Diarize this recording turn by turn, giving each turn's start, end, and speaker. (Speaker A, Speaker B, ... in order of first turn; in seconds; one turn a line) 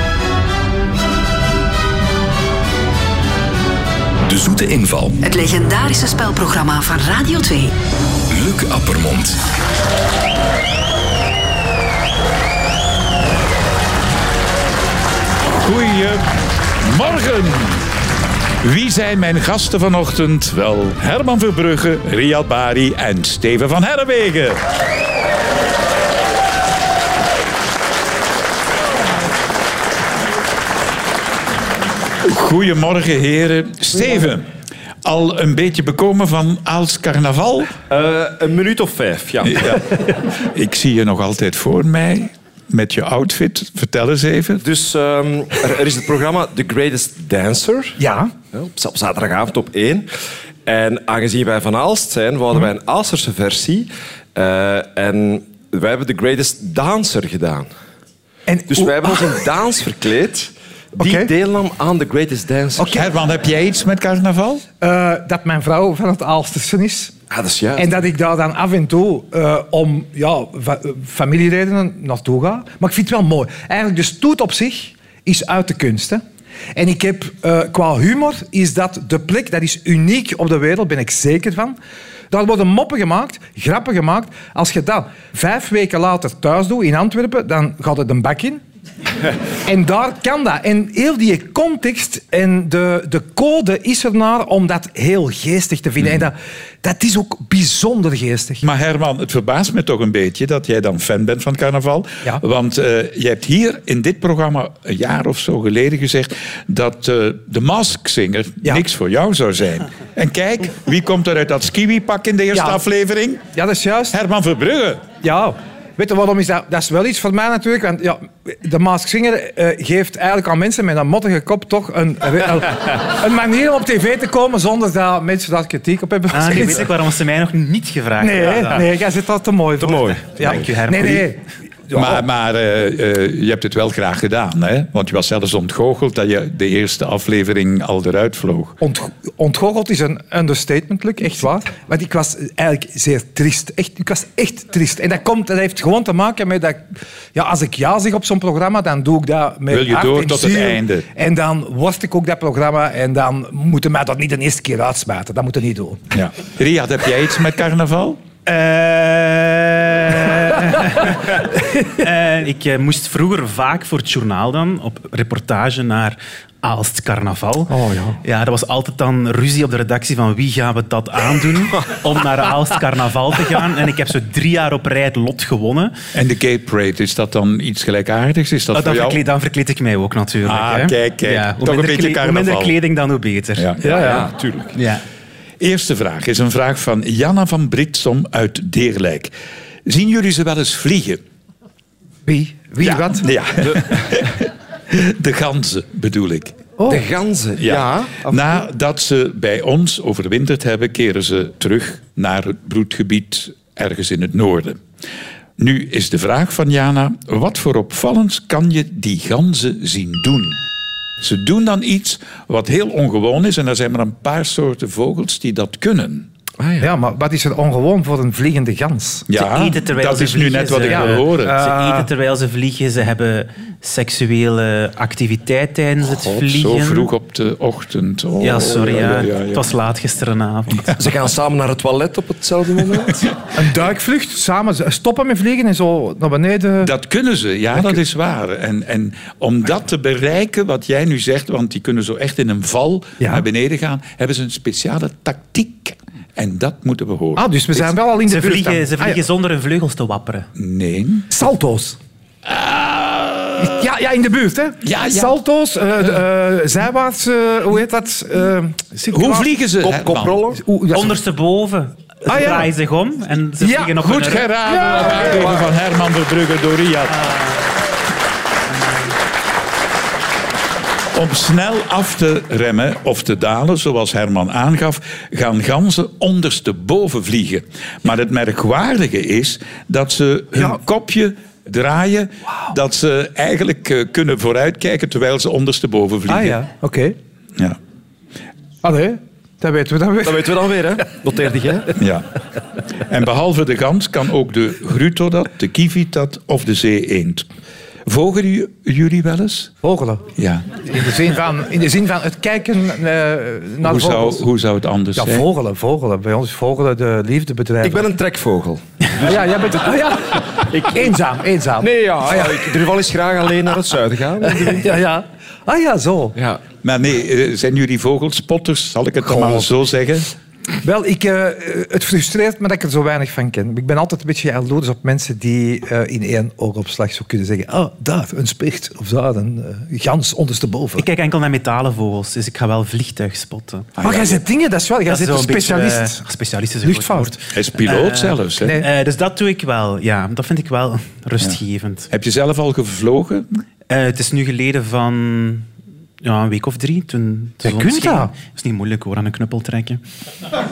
Speaker A: 4.3-5.2
Speaker B: 5.2-7.7
Speaker A: 8.3-9.4
Speaker C: 15.5-16.3
Speaker C: 16.8-17.9
Speaker C: 18.6-24.6
Speaker C: 32.2-34.5
Speaker C: 35.0-37.7
Speaker D: 37.9-39.9
Speaker C: 39.4-44.6
Speaker D: 44.6-48.0
Speaker E: 48.0-48.3
Speaker D: 48.5-50.0
Speaker D: 50.6-57.7
Speaker E: 58.5-59.4
Speaker D: 58.7-63.0
Speaker E: 61.0-61.3
Speaker E: 62.8-63.0
Speaker C: 62.9-64.6
Speaker E: 64.8-67.2
Speaker D: 67.3-68.0
Speaker E: 67.8-76.2
Speaker E: 76.7-81.8
Speaker E: 82.3-88.6
Speaker E: 89.6-98.6
Speaker C: 98.6-113.4
Speaker E: 112.5-112.8
Speaker E: 113.5-114.1
Speaker C: 114.1-115.1
Speaker E: 115.2-126.9
Speaker F: 126.3-128.8
Speaker E: 128.2-132.2
Speaker D: 129.8-130.8
Speaker F: 130.3-131.2
Speaker C: 131.9-138.8
Speaker E: 138.8-156.0
Speaker C: 149.7-151.1
Speaker C: 156.1-158.2
Speaker F: 158.4-175.9
Speaker E: 167.7-168.2
Speaker C: 176.1-179.2
Speaker F: 178.7-183.7
Speaker C: 180.4-182.8
Speaker C: 183.6-184.2
Speaker D: 183.8-184.8
Speaker F: 184.7-185.0
Speaker C: 185.6-189.3
Speaker C: 189.8-191.2
Speaker E: 192.2-193.3
Speaker C: 192.8-196.6
Speaker D: 193.6-194.0
Speaker E: 196.8-197.1
Speaker D: 196.9-198.3
Speaker C: 197.6-204.8
Speaker C: 205.6-210.6
Speaker C: 211.2-216.3
Speaker D: 216.6-216.9
Speaker E: 216.8-219.3
Speaker C: 219.3-221.6
Speaker F: 219.3-227.1
Speaker E: 220.8-222.1
Speaker C: 226.2-229.6
Speaker F: 228.4-230.9
Speaker C: 230.7-231.1
Speaker D: 231.0-233.3
Speaker E: 233.5-236.9
Speaker C: 236.8-247.9
Speaker E: 243.2-243.4
Speaker E: 247.3-249.2
Speaker F: 248.3-250.5
Speaker C: 250.6-251.3
Speaker E: 251.3-252.0
Speaker C: 252.4-253.8
Speaker E: 253.6-259.5
Speaker C: 254.8-255.3
Speaker C: 259.1-260.4
Speaker D: 259.8-260.6
Speaker E: 260.6-261.1
Speaker F: 260.9-264.4
Speaker E: 262.3-262.7
Speaker E: 263.6-263.9
Speaker C: 264.0-267.3
Speaker E: 264.7-265.5
Speaker F: 267.2-267.5
Speaker C: 271.1-286.6
Speaker E: 286.3-287.1
Speaker E: 288.8-290.7
Speaker D: 290.2-291.9
Speaker C: 291.9-292.3
Speaker C: 293.0-297.5
Speaker C: 298.1-299.7
Speaker E: 299.8-300.2
Speaker C: 300.4-301.0
Speaker E: 300.9-304.5
Speaker C: 303.8-305.5
Speaker E: 305.1-308.1
Speaker D: 307.8-311.1
Speaker E: 309.2-312.8
Speaker D: 311.8-314.8
Speaker E: 314.4-316.4
Speaker C: 316.8-320.3
Speaker E: 319.2-319.7
Speaker E: 320.8-331.0
Speaker F: 330.9-333.9
Speaker C: 333.9-334.4
Speaker E: 334.0-336.2
Speaker F: 335.1-342.1
Speaker E: 336.8-337.3
Speaker C: 337.5-338.8
Speaker E: 338.6-338.9
Speaker C: 342.1-343.5
Speaker F: 343.9-345.7
Speaker F: 346.2-350.0
Speaker E: 347.6-348.3